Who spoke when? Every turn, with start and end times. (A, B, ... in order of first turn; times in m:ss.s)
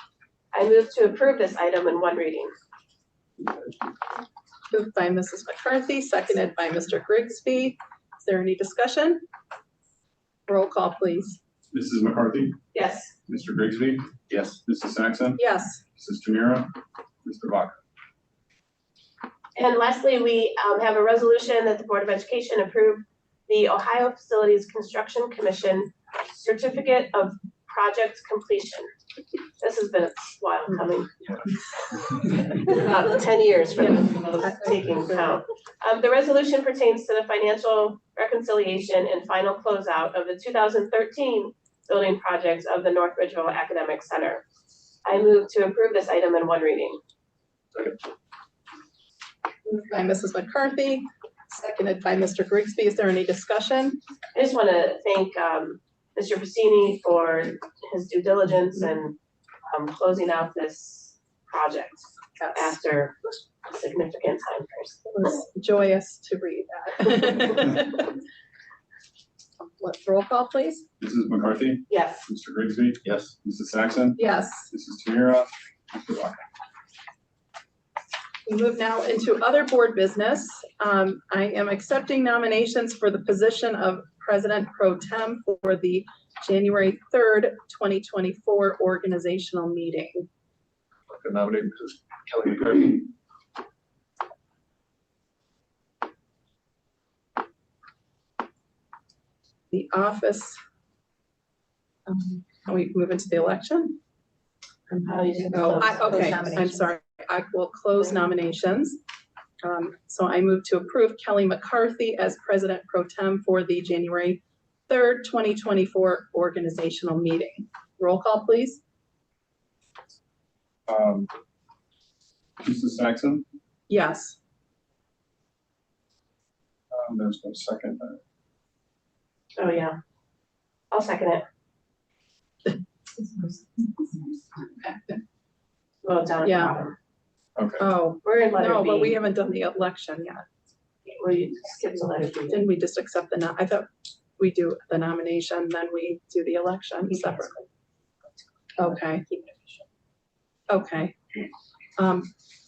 0:00.5-0:02.5 A
0:04.7-0:09.2 B
0:10.5-0:11.4 B
0:11.7-0:12.6 C
0:12.7-0:13.1 A
0:13.3-0:14.1 C
0:14.3-0:14.6 D
0:14.6-0:15.4 C
0:15.4-0:15.8 B
0:15.9-0:16.7 C
0:17.2-0:17.8 C
0:19.6-0:28.9 A
0:29.6-0:31.4 A
0:32.3-0:44.4 A
0:33.8-0:35.3 B
0:45.0-0:47.0 A
0:49.6-0:54.0 B
0:54.3-0:59.2 A
0:59.7-1:05.0 A
1:02.4-1:02.7 B
1:05.0-1:08.1 B
1:09.6-1:10.8 B
1:11.0-1:16.4 C
1:11.9-1:12.2 A
1:13.0-1:13.3 D
1:14.2-1:14.7 B
1:18.5-1:30.3 B
1:31.1-1:33.0 D
1:39.7-1:40.6 B
1:42.1-1:44.0 B
1:44.9-1:49.0 B
1:45.0-1:46.8 A
1:49.6-1:58.8 B
2:00.9-2:01.3 C
2:02.6-2:03.4 C
2:03.9-2:04.4 B
2:06.9-2:08.2 C
2:09.6-2:10.0 A
2:10.9-2:11.4 A
2:13.2-2:15.2 B
2:16.0-2:17.0 A
2:16.4-2:16.8 B
2:17.6-2:17.8 C
2:17.8-2:20.4 B
2:18.2-2:19.2 A
2:21.1-2:22.6 A
2:22.5-2:27.5 B
2:28.8-2:29.2 B
2:29.3-2:29.8 A
2:30.7-2:31.4 B
2:32.0-2:32.3 B